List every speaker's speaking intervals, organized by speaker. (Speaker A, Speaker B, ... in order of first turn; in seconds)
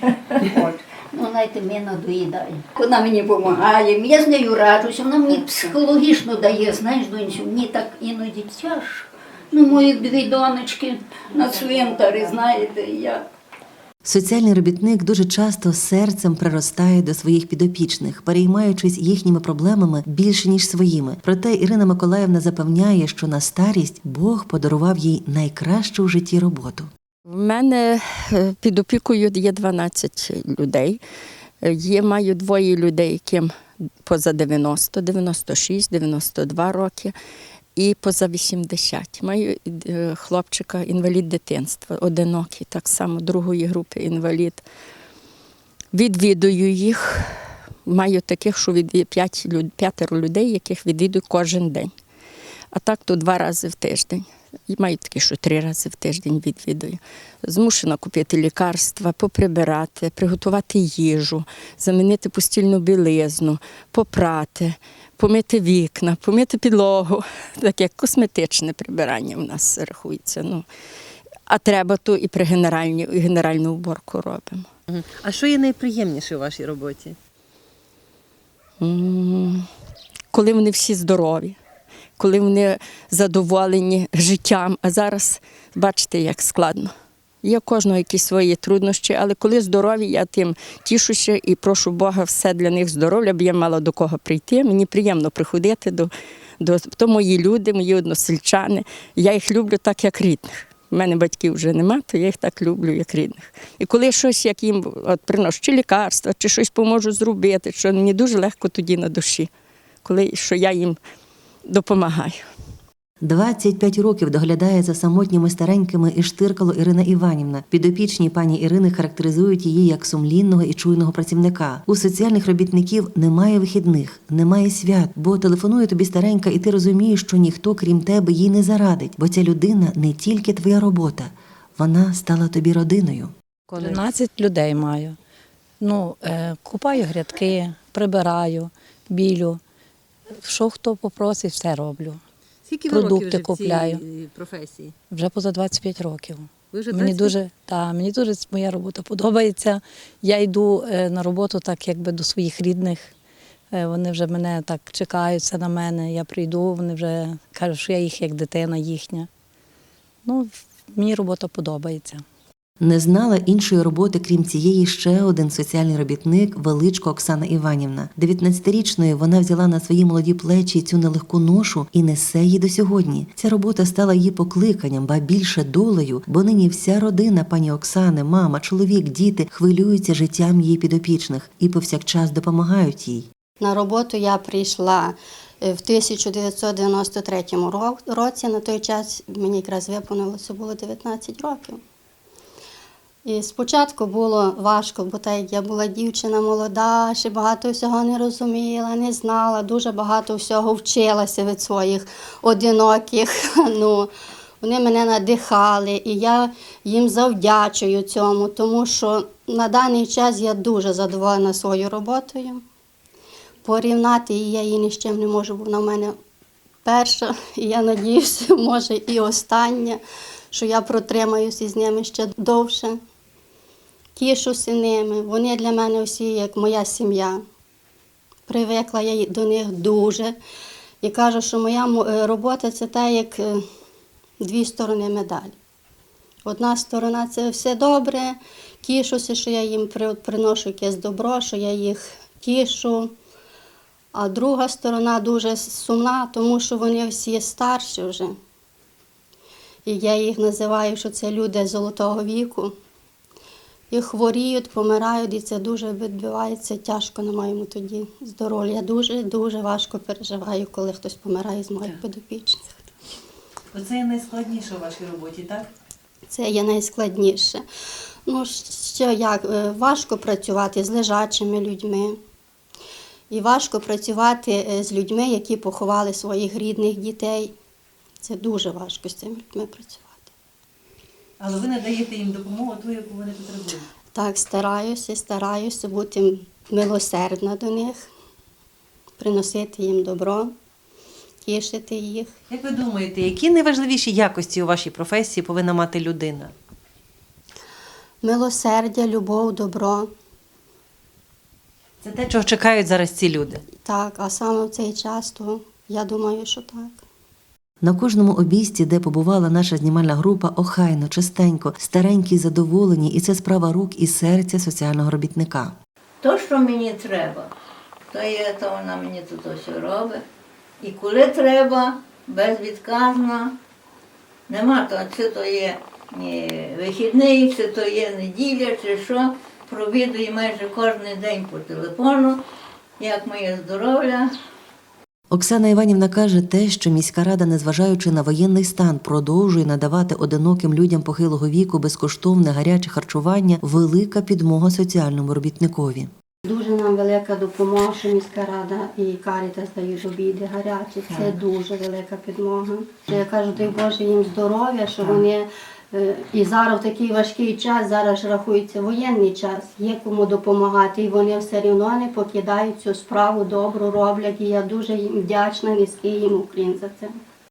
Speaker A: 0.3-13.2
Speaker B: 14.0-26.9, 113.2-133.3, 162.8-183.3, 307.8-315.7, 335.3-346.1
Speaker C: 27.3-31.0, 31.6-33.5, 34.0-37.1, 37.8-44.6, 45.9-51.9, 52.7-70.6, 71.5-74.6, 78.8-79.6, 80.3-81.5, 82.2-86.9, 87.4-109.5, 110.0-111.0, 111.7-112.4
Speaker D: 74.9-77.2, 133.7-134.1, 142.7-144.9, 146.7-147.3, 263.7-265.7, 281.4-283.9, 292.5-296.5, 302.0-303.6
Speaker E: 133.8-135.2, 135.8-139.6, 140.4-142.2, 142.9-144.0, 145.1-153.1, 153.7-159.3, 160.2-162.2
Speaker F: 183.6-191.8, 193.2-204.1, 204.6-212.6, 213.6-216.1, 216.8-223.0, 224.2-227.4, 228.5-230.4, 231.0-233.6, 234.4-235.5, 236.4-243.1, 244.1-248.4, 249.8-252.7, 253.9-262.8, 266.3-267.6, 268.2-272.2, 273.3-277.5, 278.2-280.3, 284.1-288.1, 289.2-290.5, 291.4-292.4, 298.2-300.1, 303.8-307.0, 346.4-367.1
Speaker G: 316.2-317.5, 318.1-320.2, 320.8-323.6, 324.5-332.4, 333.0-334.3